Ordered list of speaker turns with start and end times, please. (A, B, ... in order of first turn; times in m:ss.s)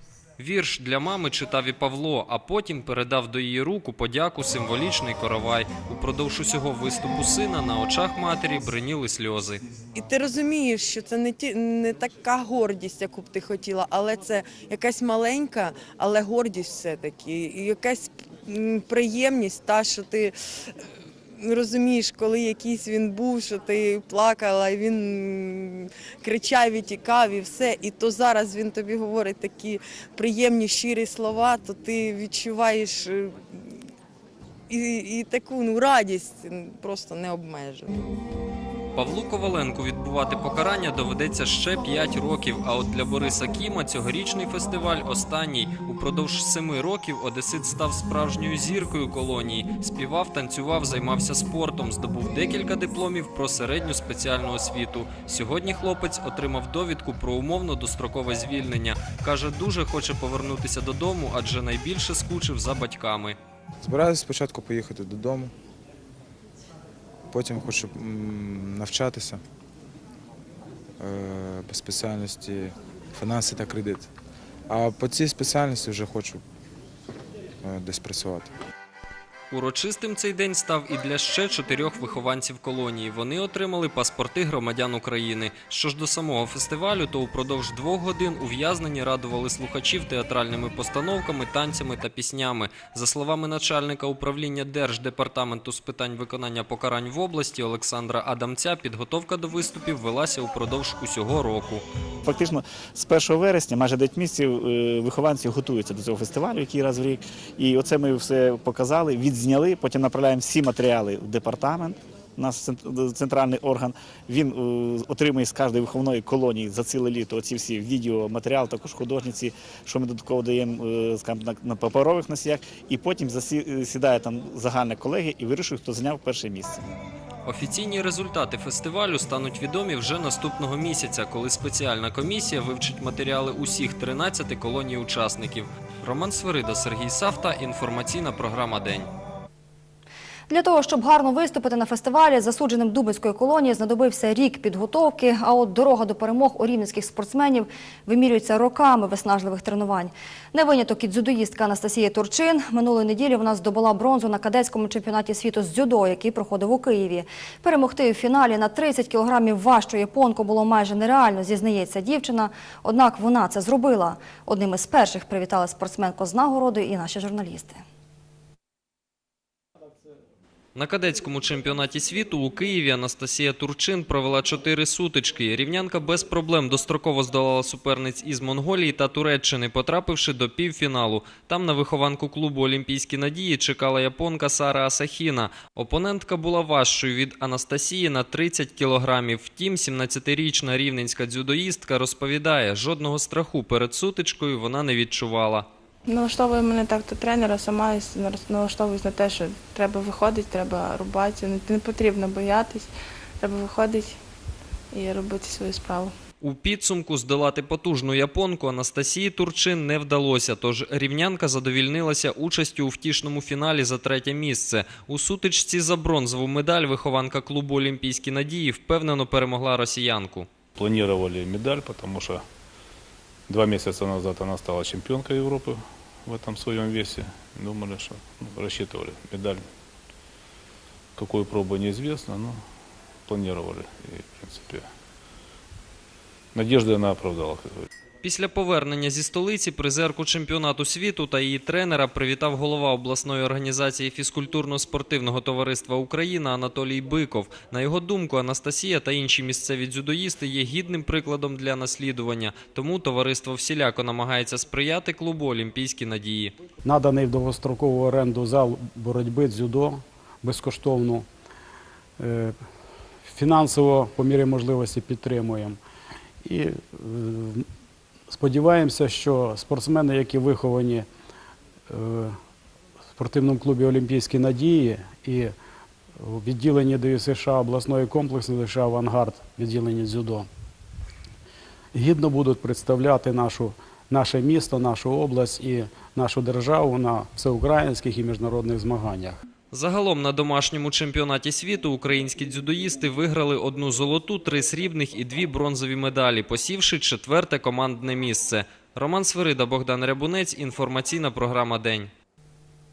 0:00.4-0:09.6 A
0:09.9-0:20.4 B
0:21.4-0:33.8 B
0:34.7-0:38.1 B
0:39.0-1:03.4 A
1:03.8-1:05.5 C
1:07.3-1:09.4 C
1:11.0-1:14.1 C
1:14.7-1:16.4 C
1:17.6-1:18.5 C
1:19.5-1:41.8 A
1:42.2-2:06.9 D
2:07.5-2:19.1 A
2:20.5-2:47.8 E
2:50.8-3:15.7 A
3:16.1-3:22.9 F
3:23.4-3:24.2 F
3:24.9-3:26.1 F
3:26.4-3:40.5 A
3:40.8-3:42.4 G
3:43.5-3:49.6 G
3:51.2-3:52.5 G
3:53.3-3:54.8 G
3:56.6-3:57.6 G
3:58.2-4:16.5 A
4:16.9-4:21.3 H
4:22.2-4:22.6 H
4:23.3-4:25.8 H
4:26.4-4:27.7 H
4:28.3-4:31.1 H
4:31.9-4:32.4 H
4:33.2-4:35.5 H
4:36.2-4:40.5 H
4:41.9-4:49.4 H
4:49.7-5:02.1 A